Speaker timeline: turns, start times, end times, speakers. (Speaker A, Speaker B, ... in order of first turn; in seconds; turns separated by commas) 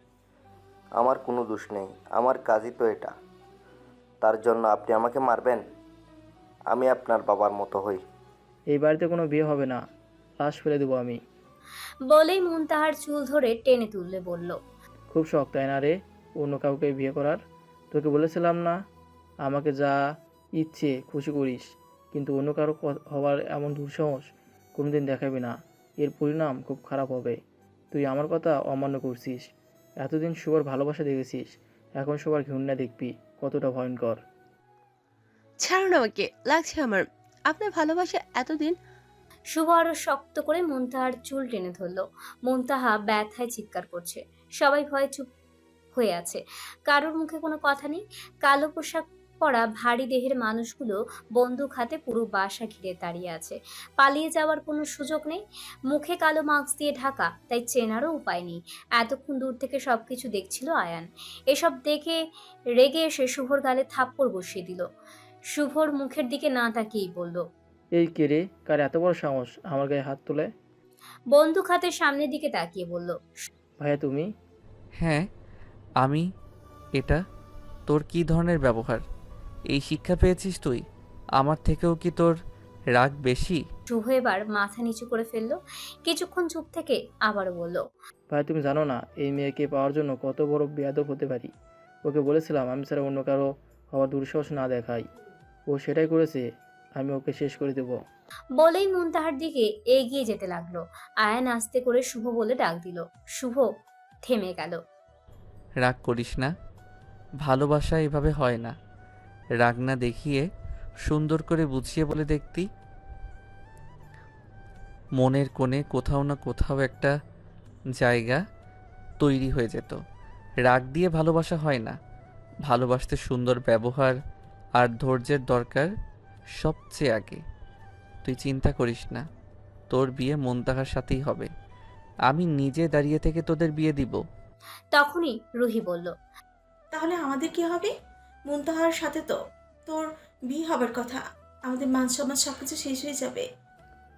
Speaker A: 0.9-3.1, Speaker A: 4.2-5.6, Speaker A: 6.7-8.0, Speaker B: 8.7-9.8, Speaker B: 10.4-11.2, Speaker C: 12.1-14.6, Speaker B: 15.1-17.4, Speaker B: 17.9-18.8, Speaker B: 19.4-20.0, Speaker B: 20.6-24.2, Speaker B: 24.8-27.4, Speaker B: 27.9-29.5, Speaker B: 30.0-34.2, Speaker D: 35.6-38.8, Speaker C: 39.5-45.3, Speaker C: 45.9-62.2, Speaker C: 62.8-64.8, Speaker C: 65.5-67.4, Speaker B: 67.9-70.5, Speaker C: 71.3-73.2, Speaker B: 73.8-74.3, Speaker E: 76.0-76.2, Speaker E: 77.9-79.0, Speaker E: 79.7-80.8, Speaker E: 81.4-82.3, Speaker E: 82.9-83.6, Speaker C: 83.9-87.8, Speaker B: 88.3-91.5, Speaker B: 92.0-95.0, Speaker B: 95.7-96.4, Speaker B: 97.0-98.0, Speaker C: 98.6-103.7, Speaker C: 104.2-104.8, Speaker E: 105.8-106.5, Speaker E: 107.4-108.7, Speaker E: 109.6-110.4, Speaker E: 111.1-112.7, Speaker E: 115.2-117.1, Speaker E: 118.0-118.4, Speaker E: 119.2-120.0, Speaker E: 120.6-121.9, Speaker E: 122.7-124.2, Speaker E: 124.8-125.9, Speaker E: 126.6-127.4, Speaker E: 128.2-129.2, Speaker E: 129.9-131.5, Speaker E: 132.3-134.2, Speaker C: 134.9-136.1, Speaker F: 136.9-137.9, Speaker F: 138.5-143.4